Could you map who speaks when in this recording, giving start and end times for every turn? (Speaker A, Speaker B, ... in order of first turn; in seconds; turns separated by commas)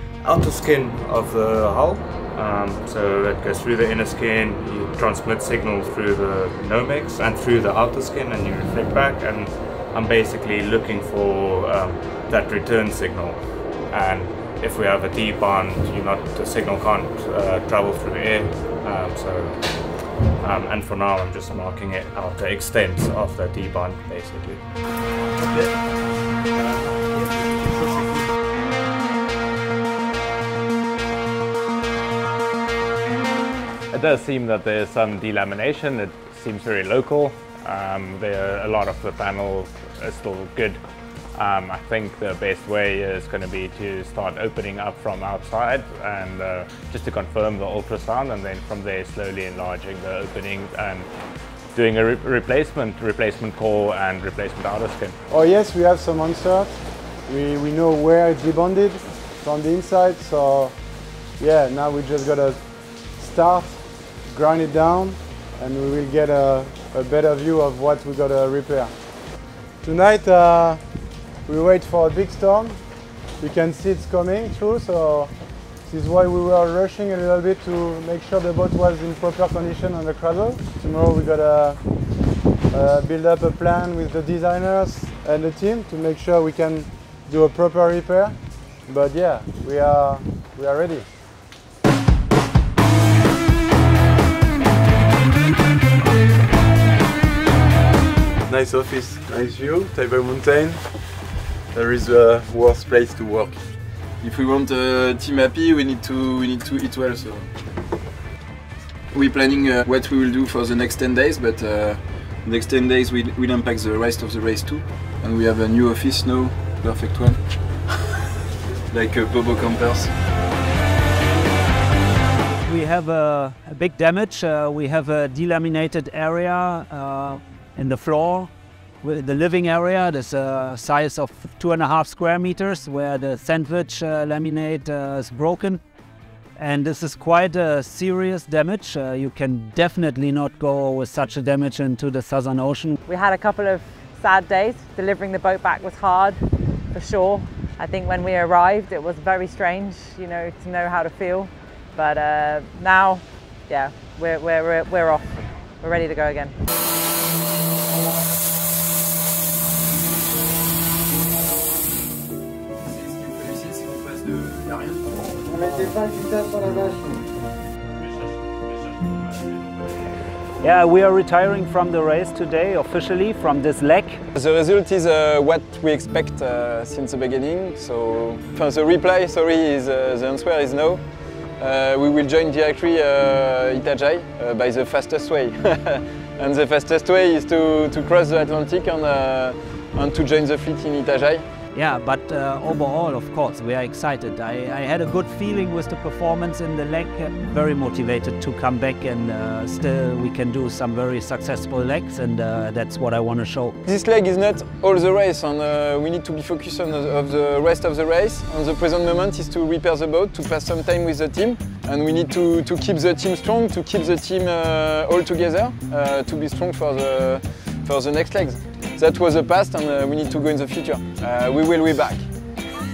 Speaker A: 0.2-24.7, Speaker B: 33.9-51.1, Speaker B: 51.7-55.2, Speaker C: 55.3-91.1, Speaker C: 98.4-103.6, Speaker D: 104.2-107.5, Speaker D: 109.1-117.4, Speaker D: 118.9-120.1, Speaker E: 122.6-128.5, Speaker E: 129.0-135.8, Speaker E: 136.6-142.9, Speaker F: 143.0-156.6, Speaker D: 162.8-165.0, Speaker E: 170.6-174.2, Speaker D: 174.3-191.4, Speaker E: 191.7-203.8, Speaker D: 203.8-222.2